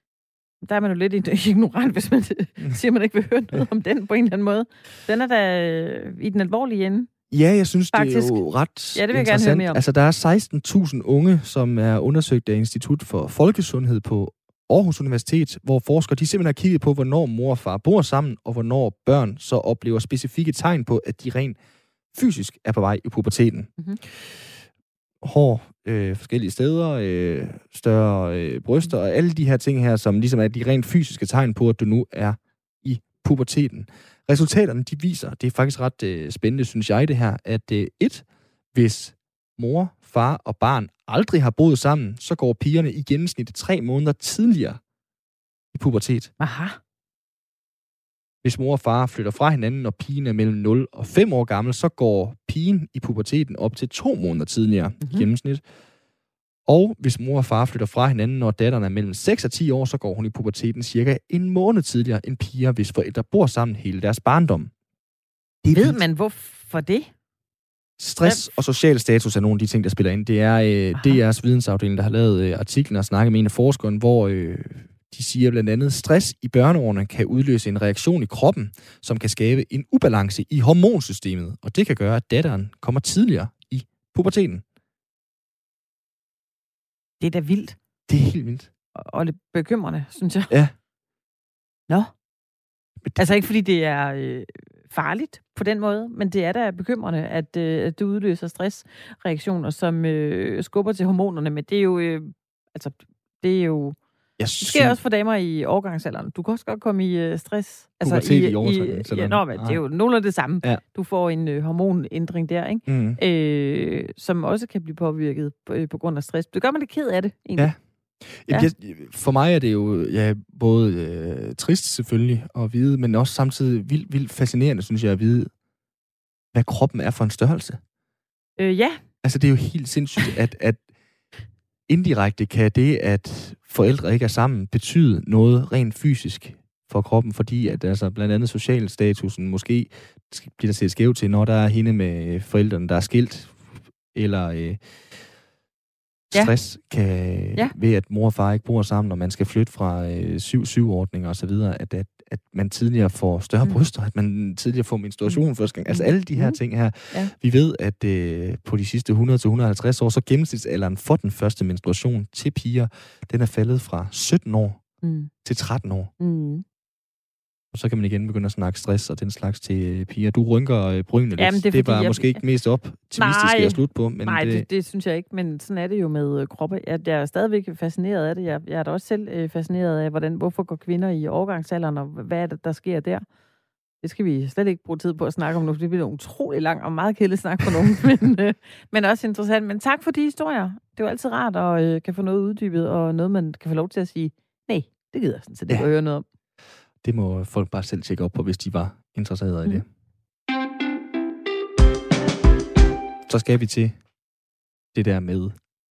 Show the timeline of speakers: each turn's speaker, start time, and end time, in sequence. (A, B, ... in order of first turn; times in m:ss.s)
0:00.6-0:07.1 A
0:07.3-0:21.6 B
0:07.9-0:08.4 A
0:09.0-0:09.8 A
0:22.1-0:23.7 B
0:25.2-0:44.8 B
0:45.7-0:46.3 B
0:46.4-0:46.8 A
0:48.4-0:55.6 B
0:55.0-0:55.3 A
0:56.7-1:04.7 B
1:05.6-1:06.0 B
1:05.7-1:07.1 A
1:08.0-1:24.6 B
1:27.2-1:27.8 A
1:28.1-1:28.7 B
1:29.0-1:30.5 A
1:33.2-1:44.0 A
1:44.4-1:45.0 B
1:44.6-1:57.7 A
1:48.0-1:49.8 B
1:52.9-1:53.2 B
1:58.3-2:05.5 B
2:06.5-2:07.8 B
2:08.6-2:09.0 A
2:09.2-2:10.8 B
2:11.9-2:24.8 B
2:26.3-2:44.8 B
2:35.3-2:36.6 A
2:45.0-2:45.3 A
2:45.4-2:46.1 B
2:46.2-2:46.6 A
2:47.7-2:54.7 B
2:51.4-2:52.4 A
2:53.2-3:03.2 A
3:04.0-3:16.2 A
3:17.0-3:19.9 B
3:23.3-3:24.0 B
3:24.9-3:25.6 B